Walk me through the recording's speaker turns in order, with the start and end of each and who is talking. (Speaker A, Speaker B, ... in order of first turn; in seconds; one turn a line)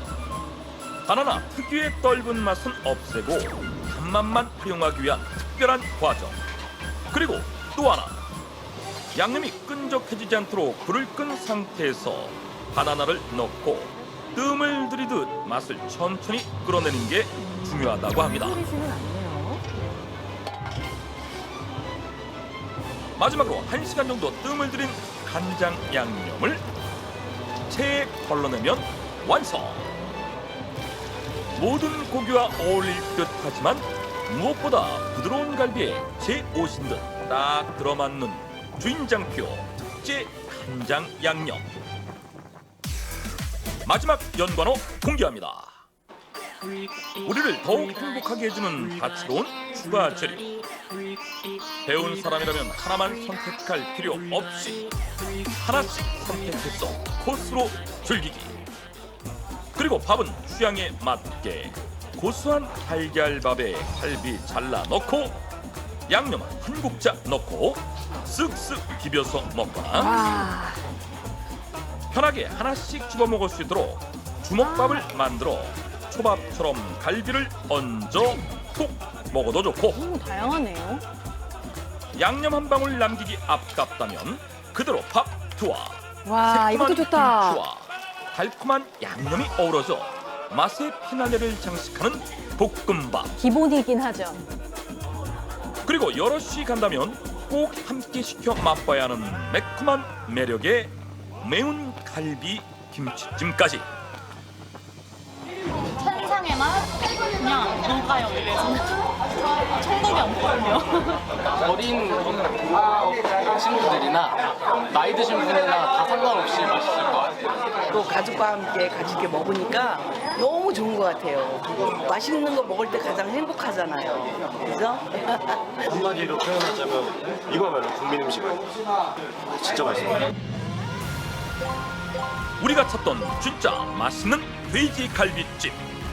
Speaker A: 1.1-6.4
Speaker A: 7.1-8.2
Speaker A: 9.1-18.6
Speaker B: 17.8-19.6
Speaker A: 23.2-26.6
Speaker A: 27.7-29.9
Speaker A: 31.5-41.7
Speaker A: 43.8-45.7
Speaker A: 47.2-50.5
Speaker A: 51.8-54.9
Speaker A: 55.5-58.5
Speaker A: 59.7-65.4
Speaker A: 66.1-70.2
Speaker B: 69.9-70.8
Speaker A: 72.1-80.0
Speaker B: 74.6-75.1
Speaker B: 79.9-81.0
Speaker A: 82.1-93.3
Speaker B: 86.2-87.6
Speaker B: 93.4-94.4
Speaker A: 95.8-103.9
Speaker C: 106.0-111.3
Speaker D: 111.5-117.3
Speaker E: 117.9-125.6
Speaker F: 125.8-128.7
Speaker F: 129.5-130.2
Speaker A: 132.6-135.8